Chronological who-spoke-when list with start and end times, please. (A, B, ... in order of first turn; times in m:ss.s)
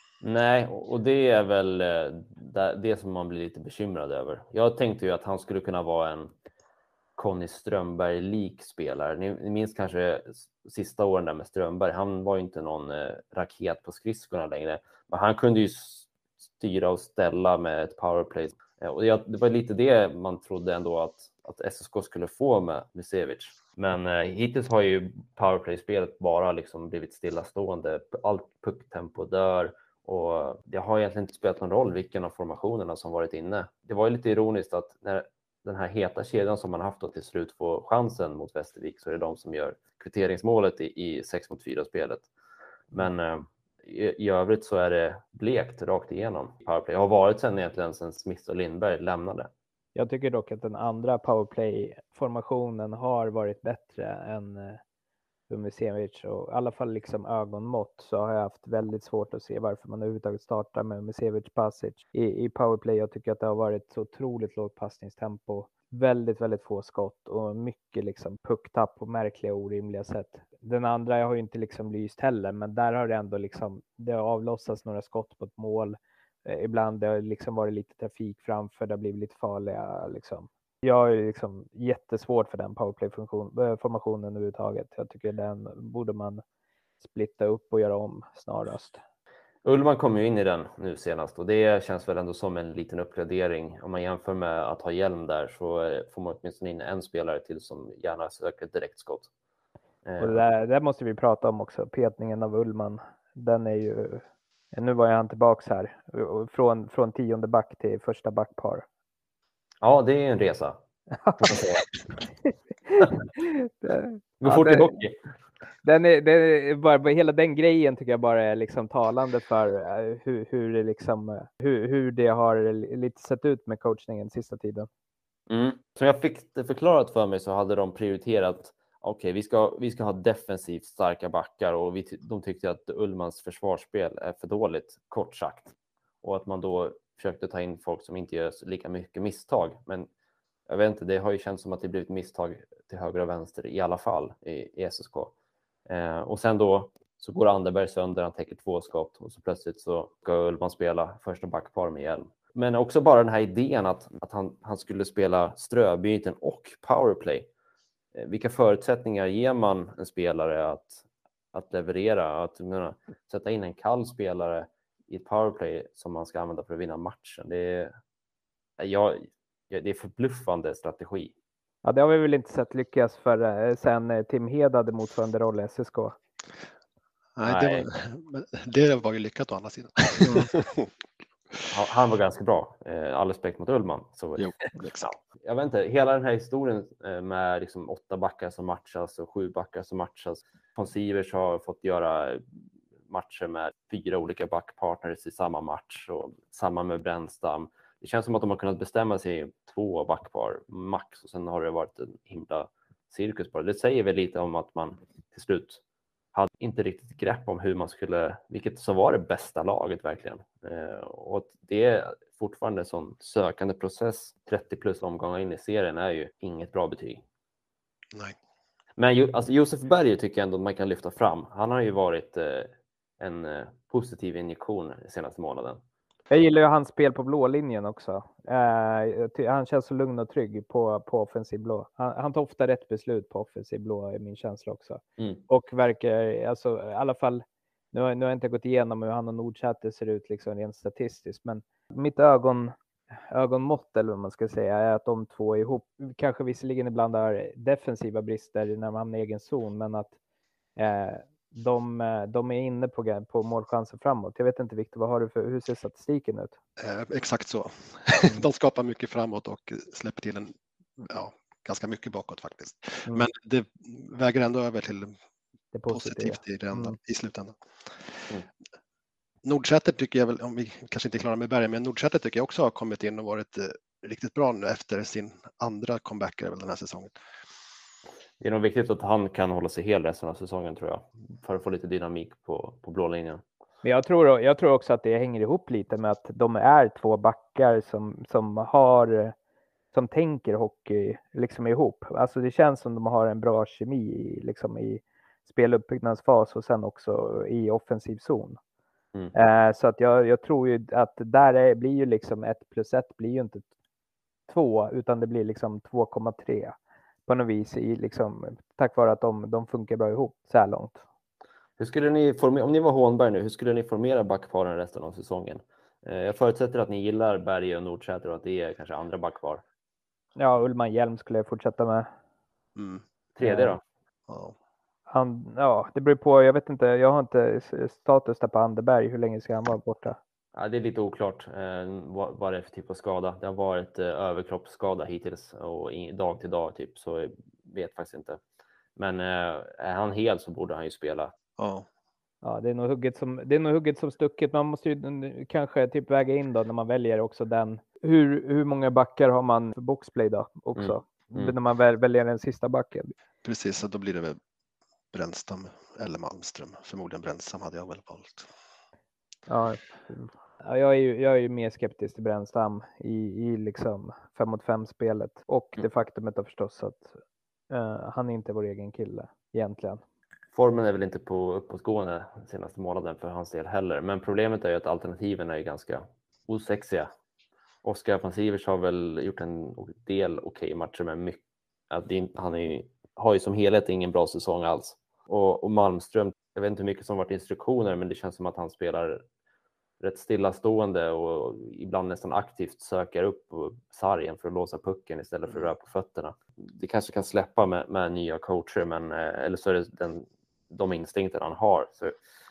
0:00.2-0:06.3 A
0:07.2-0:16.1 A
0:16.6-0:42.3 A
0:42.9-0:49.5 A
0:50.0-0:54.8 B
0:55.5-1:26.4 B
1:27.0-1:29.0 B
1:29.6-1:39.3 A
1:40.0-1:40.4 A
1:40.2-1:48.9 B
1:49.8-1:50.8 A
1:51.2-1:51.5 B
1:51.4-1:52.0 A
1:53.0-1:54.9 B
1:54.4-1:55.2 A
1:55.8-2:04.9 B
2:05.5-2:20.1 A
2:20.7-2:25.3 A
2:25.9-2:37.5 A
2:38.2-2:47.9 A
2:48.8-2:51.3 A
2:51.8-2:56.2 B
2:57.4-3:00.9 C
2:57.4-2:57.9 A
3:00.2-3:00.7 A
3:01.7-3:12.4 A
3:04.4-3:05.1 C
3:13.1-3:25.8 A
3:26.3-3:37.2 A
3:39.0-3:45.8 A
3:46.3-4:02.7 B
4:03.3-4:10.1 B
4:10.8-4:16.6 B
4:16.8-4:25.2 C
4:25.7-4:27.0 B
4:25.9-4:28.3 C
4:29.4-4:37.1 C
4:38.4-4:43.4 A
4:43.8-4:49.3 B
4:49.9-4:58.6 B
4:59.3-5:03.6 B
5:04.5-5:06.8 B
5:07.3-5:11.0 B
5:11.8-5:19.6 A
5:20.4-5:22.1 B
5:22.8-5:23.0 C
5:23.4-5:23.8 A
5:23.4-5:23.7 B
5:24.3-5:24.6 C
5:25.1-5:30.2 B
5:30.5-5:38.4 A
5:39.0-5:41.4 A
5:41.6-5:41.9 C
5:42.4-5:53.1 B
5:50.8-5:51.6 A
5:53.4-5:54.4 C
5:55.1-5:58.5 C
5:59.5-6:07.2 B
6:07.7-6:10.0 B
6:10.5-6:17.1 A
6:17.8-6:29.2 A
6:30.0-6:42.2 A